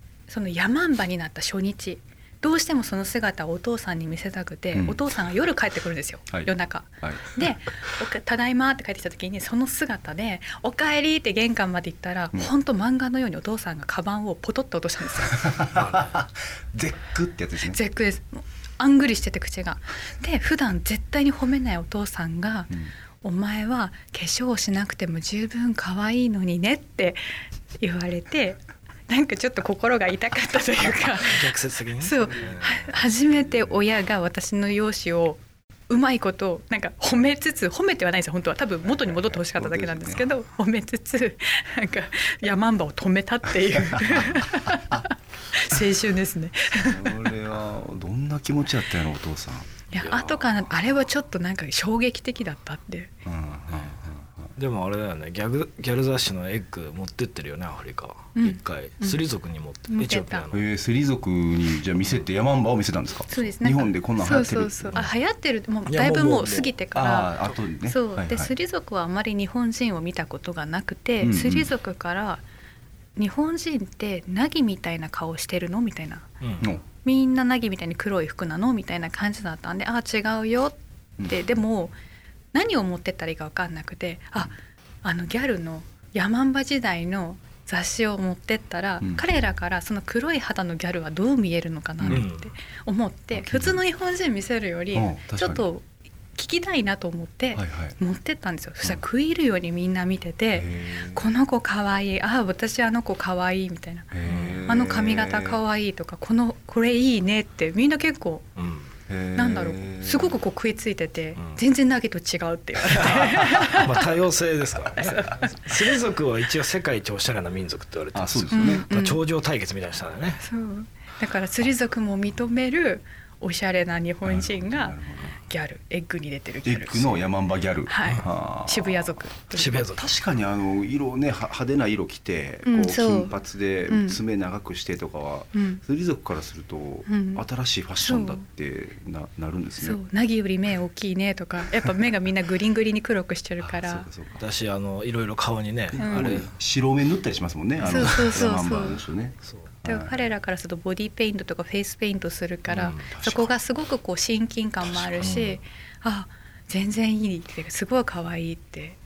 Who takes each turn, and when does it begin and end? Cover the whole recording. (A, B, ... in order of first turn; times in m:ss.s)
0:00.3-0:15.6 A
0:04.7-0:05.0 B
0:07.0-0:07.4 B
0:15.4-0:17.8 B
0:15.7-0:16.1 C
0:17.6-0:27.2 A
0:27.8-0:47.3 A
0:31.0-0:32.9 C
0:38.9-0:40.3 B
0:43.9-0:44.9 B
0:46.8-0:49.7 B
0:49.9-0:53.1 A
0:50.0-0:50.7 C
0:53.2-0:54.5 B
0:54.6-1:00.6 C
0:58.3-0:59.2 A
0:59.9-1:00.5 A
1:00.5-1:05.1 B
1:03.3-1:12.4 A
1:05.9-1:06.8 C
1:06.9-1:08.5 B
1:11.2-1:11.7 B
1:13.2-1:16.3 A
1:16.4-1:16.6 C
1:16.6-1:16.8 B
1:17.0-1:21.9 A
1:22.5-1:44.1 A
1:32.0-1:32.2 B
1:32.1-1:32.5 C
1:33.3-1:33.8 B
1:34.9-1:35.7 B
1:37.5-1:38.0 B
1:40.5-1:41.2 B
1:44.1-1:45.6 B
1:44.2-1:44.7 C
1:44.6-1:48.5 A
1:48.6-1:48.9 C
1:49.1-1:50.4 B
1:49.3-1:54.0 A
1:52.8-2:00.4 C
1:55.0-1:55.9 A
1:58.1-1:58.9 B
1:58.5-1:59.2 A
2:00.4-2:07.1 A
2:04.2-2:05.4 B
2:06.6-2:09.2 B
2:07.9-2:09.9 A
2:09.5-2:10.1 C
2:09.9-2:20.0 B
2:12.6-2:13.3 A
2:13.9-2:14.2 A
2:15.5-2:15.8 A
2:17.1-2:17.4 A
2:18.0-2:18.4 A
2:19.8-2:24.1 A
2:23.6-2:24.4 B
2:24.4-2:26.5 C
2:25.9-2:30.3 B
2:26.0-2:26.4 A
2:27.8-2:28.4 C
2:27.8-2:29.0 A
2:29.4-2:29.7 C
2:29.8-2:39.0 A
2:32.7-2:33.1 C
2:33.0-2:33.5 B
2:35.2-2:35.6 C